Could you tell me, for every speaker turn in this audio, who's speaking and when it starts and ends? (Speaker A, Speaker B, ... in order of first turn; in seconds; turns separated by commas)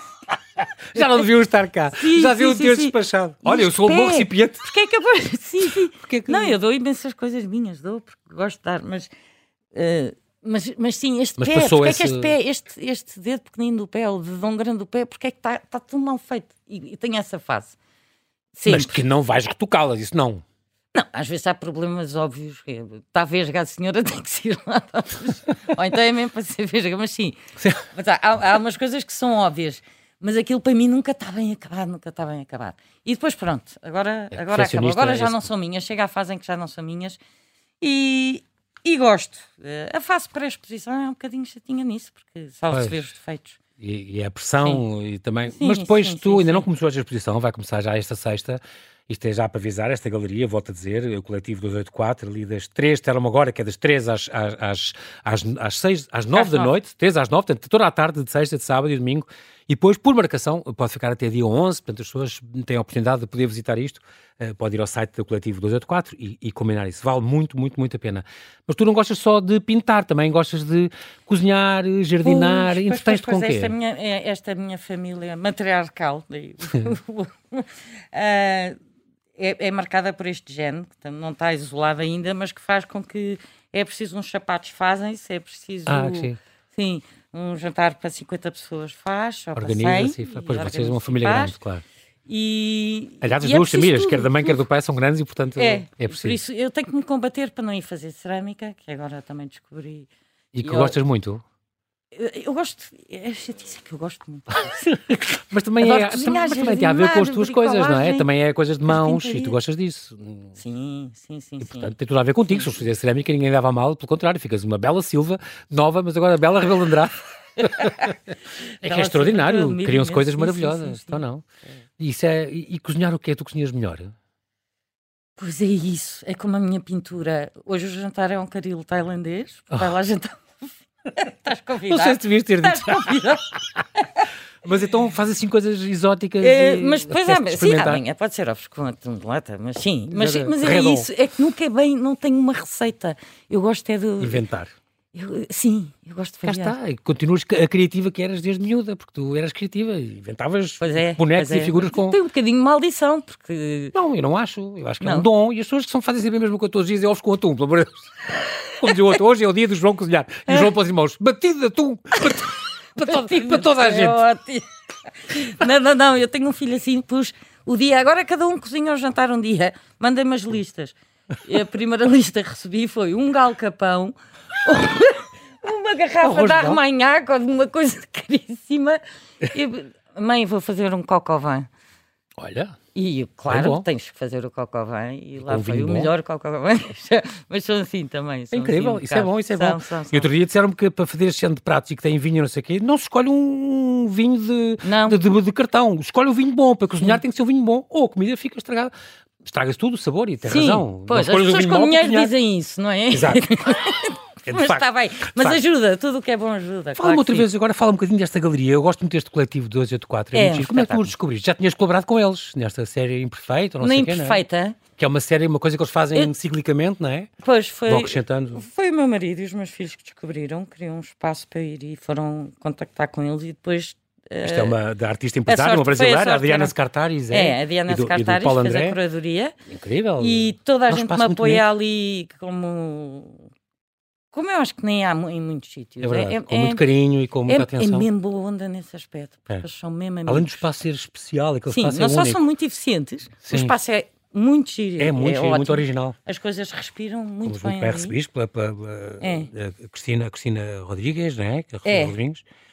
Speaker A: 0.6-4.7, Speaker B: 0.9-1.2, Speaker B: 1.9-9.1, Speaker A: 6.0-6.6, Speaker B: 9.7-17.8, Speaker A: 11.4-12.3, Speaker B: 18.5-19.0, Speaker A: 18.7-20.4, Speaker B: 20.9-27.4, Speaker B: 27.9-37.2, Speaker A: 34.3-35.5, Speaker B: 37.8-43.6, Speaker A: 42.7-43.0, Speaker A: 43.8-73.7, Speaker B: 45.5-46.6, Speaker B: 56.3-56.7, Speaker B: 72.2-78.8, Speaker B: 79.3-91.5, Speaker A: 85.9-86.4, Speaker A: 89.5-91.8, Speaker B: 92.2-94.6, Speaker A: 93.2-96.4, Speaker B: 95.5-100.1, Speaker A: 100.5-101.4, Speaker B: 100.6-101.0, Speaker B: 102.1-108.3, Speaker A: 104.6-110.5, Speaker B: 108.8-109.6, Speaker B: 110.6-111.9, Speaker A: 111.6-121.4, Speaker B: 117.7-118.1, Speaker B: 118.8-121.2, Speaker A: 122.0-124.1, Speaker B: 125.4-134.3, Speaker A: 131.9-133.3, Speaker A: 134.6-138.0, Speaker B: 136.4-144.4, Speaker A: 140.1-141.1, Speaker A: 144.2-144.7, Speaker B: 145.1-146.8, Speaker A: 146.4-152.2, Speaker B: 150.8-153.9, Speaker A: 153.9-164.2, Speaker B: 155.0-155.3, Speaker B: 162.2-181.7, Speaker A: 176.2-176.8, Speaker A: 182.4-182.8, Speaker B: 182.9-190.3, Speaker A: 183.5-183.9, Speaker A: 185.4-186.1, Speaker A: 188.5-198.9, Speaker B: 194.8-195.2, Speaker A: 199.4-202.3, Speaker B: 200.4-207.5, Speaker A: 203.1-203.5, Speaker A: 204.4-205.6, Speaker A: 207.0-214.4, Speaker B: 210.3-211.1, Speaker B: 213.8-214.8, Speaker A: 215.0-217.3, Speaker B: 217.4-224.7, Speaker A: 217.9-218.6, Speaker A: 224.4-229.0, Speaker B: 225.4-226.7, Speaker B: 227.3-229.5, Speaker A: 229.7-231.7, Speaker B: 230.2-233.5, Speaker B: 234.3-236.8, Speaker A: 236.0-238.1, Speaker B: 237.4-240.6, Speaker A: 240.2-242.4, Speaker B: 241.7-248.2, Speaker A: 243.4-243.7, Speaker A: 245.0-246.2, Speaker A: 247.4-252.4, Speaker B: 249.2-249.5, Speaker B: 251.8-252.2